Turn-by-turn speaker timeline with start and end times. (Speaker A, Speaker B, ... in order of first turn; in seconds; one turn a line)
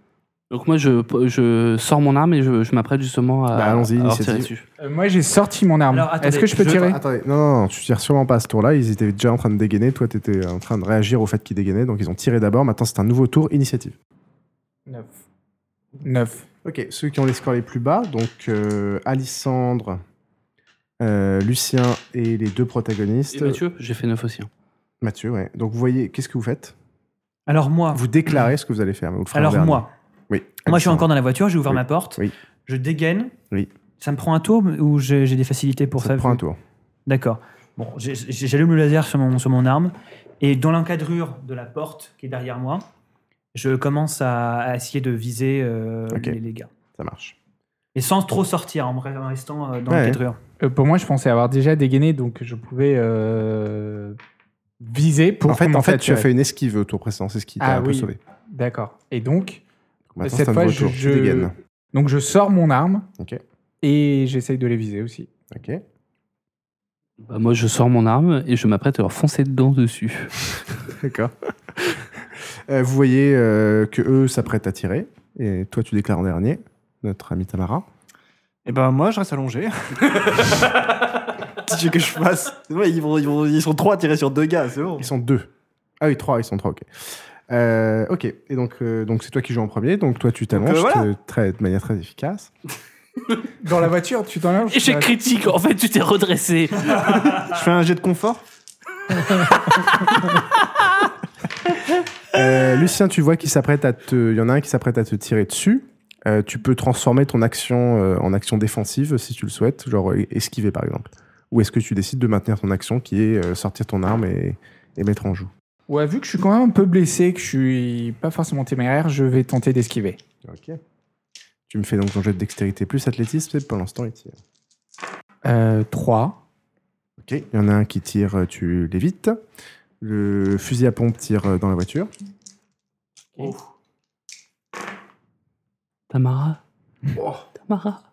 Speaker A: 0.5-4.7
Speaker B: 3.5-4.5
Speaker C: 4.8-7.0
Speaker D: 5.9-6.8
Speaker B: 6.6-14.0
Speaker C: 14.9-15.2
Speaker C: 16.0-16.5
Speaker B: 16.6-20.0
Speaker B: 21.0-23.6
Speaker A: 23.3-24.5
Speaker B: 25.0-26.8
Speaker D: 27.5-28.0
Speaker B: 27.9-31.1
Speaker D: 29.3-29.9
Speaker D: 30.7-33.3
Speaker B: 31.7-32.3
Speaker D: 34.0-36.4
Speaker B: 36.0-36.6
Speaker D: 37.1-42.9
Speaker D: 43.5-46.7
Speaker B: 46.1-46.4
Speaker B: 47.0-47.4
Speaker D: 48.0-50.4
Speaker B: 49.9-50.2
Speaker C: 50.6-54.2
Speaker C: 54.8-56.3
Speaker B: 55.5-58.2
Speaker C: 57.6-59.6
Speaker B: 60.1-61.5
Speaker C: 60.2-63.1
Speaker C: 63.8-65.3
Speaker B: 65.5-65.8
Speaker A: 67.2-70.5
Speaker B: 70.9-77.8
Speaker E: 78.7-80.8
Speaker E: 81.5-85.1
Speaker B: 85.0-85.5
Speaker B: 86.0-92.5
Speaker E: 90.5-91.1
Speaker C: 93.6-95.1
Speaker A: 94.7-97.5
Speaker E: 97.1-98.4
Speaker A: 99.7-100.8
Speaker B: 102.3-115.5
Speaker C: 115.9-120.2
Speaker B: 120.4-120.8
Speaker B: 121.7-124.4
Speaker C: 125.4-126.4
Speaker B: 127.2-129.4
Speaker B: 130.0-132.1
Speaker A: 133.4-133.6
Speaker A: 136.1-136.6
Speaker A: 137.6-138.0